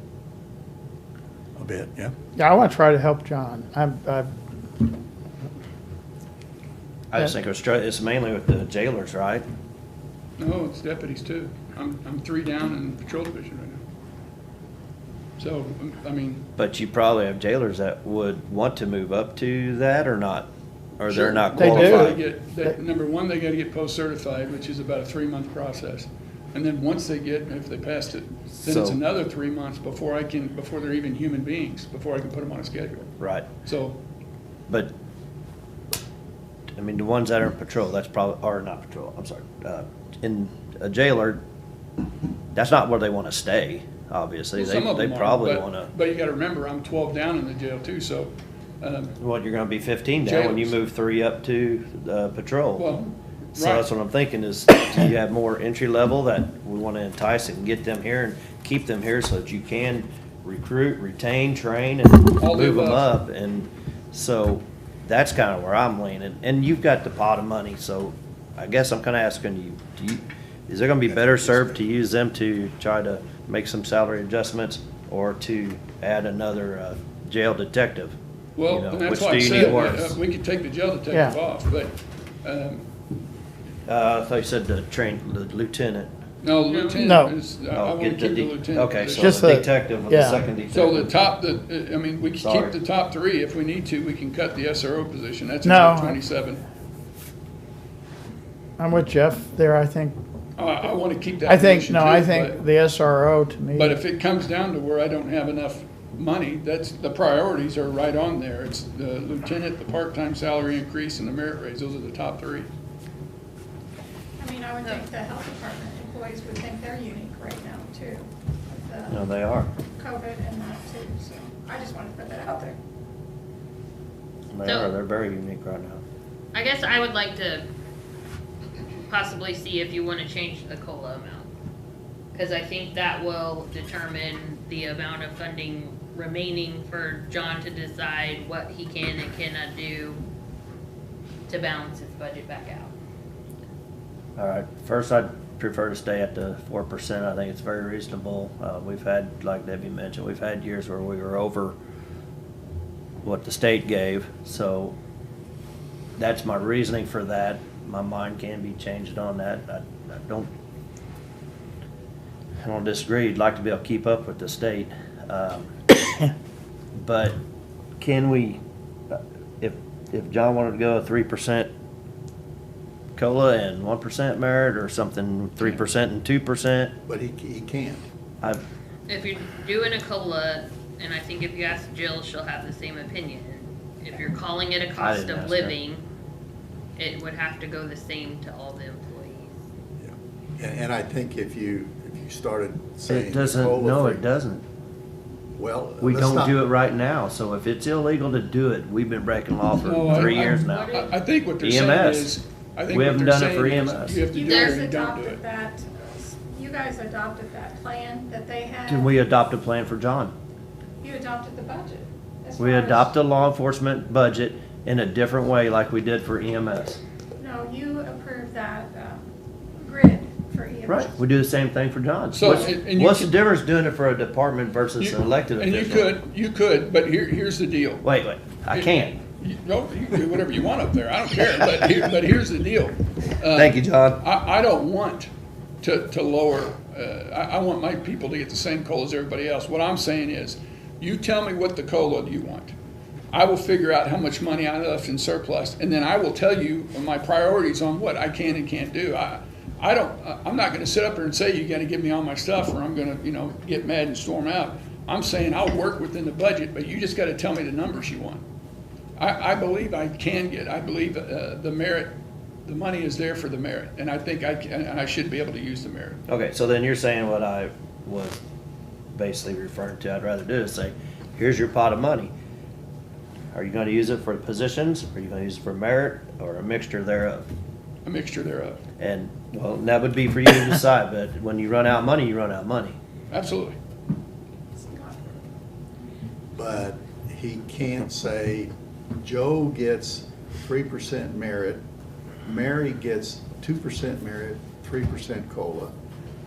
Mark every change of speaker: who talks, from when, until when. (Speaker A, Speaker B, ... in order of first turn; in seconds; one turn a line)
Speaker A: 1.6-2.1
Speaker B: 2.4-4.3
Speaker C: 7.1-9.4
Speaker D: 10.4-13.8
Speaker D: 15.4-16.4
Speaker C: 16.6-22.2
Speaker D: 21.1-33.1
Speaker B: 21.6-22.7
Speaker C: 28.6-29.0
Speaker C: 33.2-33.5
Speaker D: 33.6-34.0
Speaker C: 36.8-41.4
Speaker C: 42.5-45.9
Speaker D: 44.5-49.1
Speaker C: 49.2-52.9
Speaker D: 50.2-50.8
Speaker D: 52.8-53.9
Speaker C: 53.5-80.2
Speaker D: 62.4-63.1
Speaker A: 71.3-71.7
Speaker D: 78.6-82.9
Speaker B: 81.1-81.4
Speaker C: 83.9-86.1
Speaker D: 86.4-89.3
Speaker E: 86.7-87.0
Speaker B: 87.0-87.4
Speaker C: 87.7-91.1
Speaker B: 89.2-90.4
Speaker D: 90.7-96.6
Speaker C: 92.4-92.8
Speaker B: 95.6-96.2
Speaker B: 98.8-100.2
Speaker D: 100.6-102.6
Speaker B: 101.4-104.0
Speaker D: 103.8-112.7
Speaker F: 114.4-119.3
Speaker C: 119.1-119.7
Speaker F: 120.0-122.8
Speaker C: 124.5-126.0
Speaker E: 124.7-124.9
Speaker E: 126.5-127.7
Speaker E: 129.1-131.5
Speaker E: 132.3-140.2
Speaker E: 141.5-142.9
Speaker C: 144.4-151.8
Speaker C: 153.2-155.0
Speaker C: 156.2-160.5
Speaker C: 162.6-165.7
Speaker C: 167.0-167.4
Speaker C: 168.0-168.6
Speaker C: 169.1-171.7
Speaker C: 173.2-176.9
Speaker A: 177.1-178.0
Speaker E: 179.1-186.1
Speaker C: 185.0-185.8
Speaker E: 187.0-189.5
Speaker A: 190.0-194.2
Speaker C: 193.1-194.6
Speaker A: 195.6-196.6
Speaker C: 196.0-201.0
Speaker D: 199.8-205.4
Speaker E: 200.3-201.1
Speaker C: 201.6-204.2
Speaker F: 204.3-209.1
Speaker E: 204.5-204.8
Speaker C: 208.9-210.3
Speaker F: 211.0-213.1
Speaker C: 212.6-217.0
Speaker F: 217.4-221.1
Speaker C: 220.9-226.2
Speaker D: 222.3-223.3
Speaker F: 222.4-222.7
Speaker D: 225.0-228.1
Speaker C: 228.0-229.2
Speaker D: 228.7-235.3
Speaker C: 233.5-234.2
Speaker D: 235.8-242.8
Speaker D: 243.3-258.4
Speaker D: 259.2-266.2
Speaker C: 266.3-268.4
Speaker C: 269.1-272.3
Speaker C: 273.5-277.4
Speaker D: 278.1-278.8
Speaker C: 279.0-283.0
Speaker D: 283.3-283.8
Speaker F: 284.8-285.4
Speaker A: 286.6-291.8
Speaker A: 292.4-295.9